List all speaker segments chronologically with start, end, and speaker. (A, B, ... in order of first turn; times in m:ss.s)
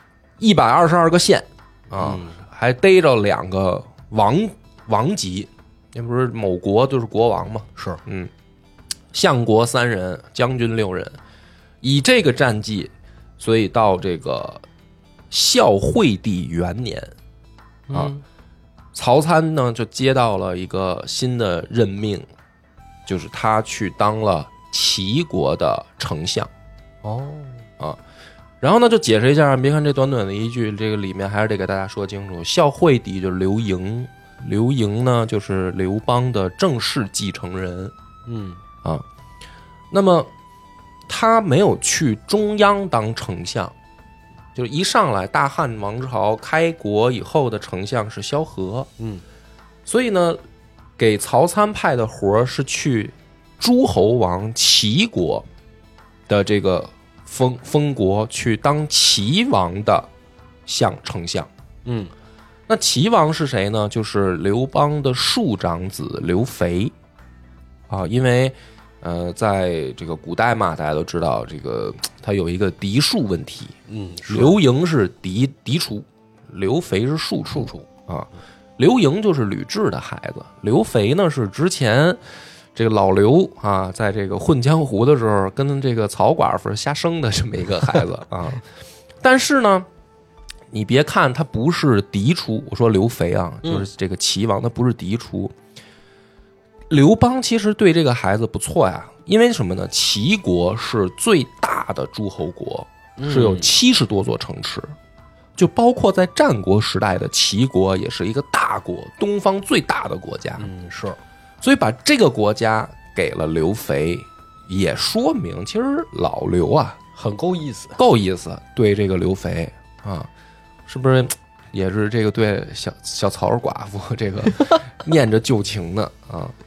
0:00.4-0:08.3 A
0:02.0-0:02.4 B
0:09.1-0:11.2 A
0:11.8-0:14.6 A
0:15.3-0:17.1 A
0:17.9-0:18.2 B
0:19.0-0:22.3 A
0:23.1-0:26.5 A
0:27.0-0:27.6 B
0:28.6-0:37.9 A
0:38.3-0:38.6 B
0:39.9-0:40.3 A
0:41.1-0:43.8 A
0:44.6-0:48.9 A
0:49.9-0:50.4 A
0:51.0-0:55.5 A
0:56.3-1:00.1 A
1:00.7-1:01.5 A
1:01.8-1:02.1 B
1:02.7-1:07.0 A
1:07.9-1:13.8 A
1:13.9-1:14.6 B
1:14.3-1:22.2 A
1:17.5-1:17.9 B
1:22.8-1:28.6 A
1:29.2-1:29.9 A
1:30.7-1:35.5 A
1:36.9-1:44.9 A
1:43.2-1:43.7 B
1:45.6-1:50.7 A
1:50.6-1:51.2 B
1:51.6-1:57.0 A
1:57.2-1:58.0 B
1:58.0-2:00.3 A
2:00.9-2:06.5 A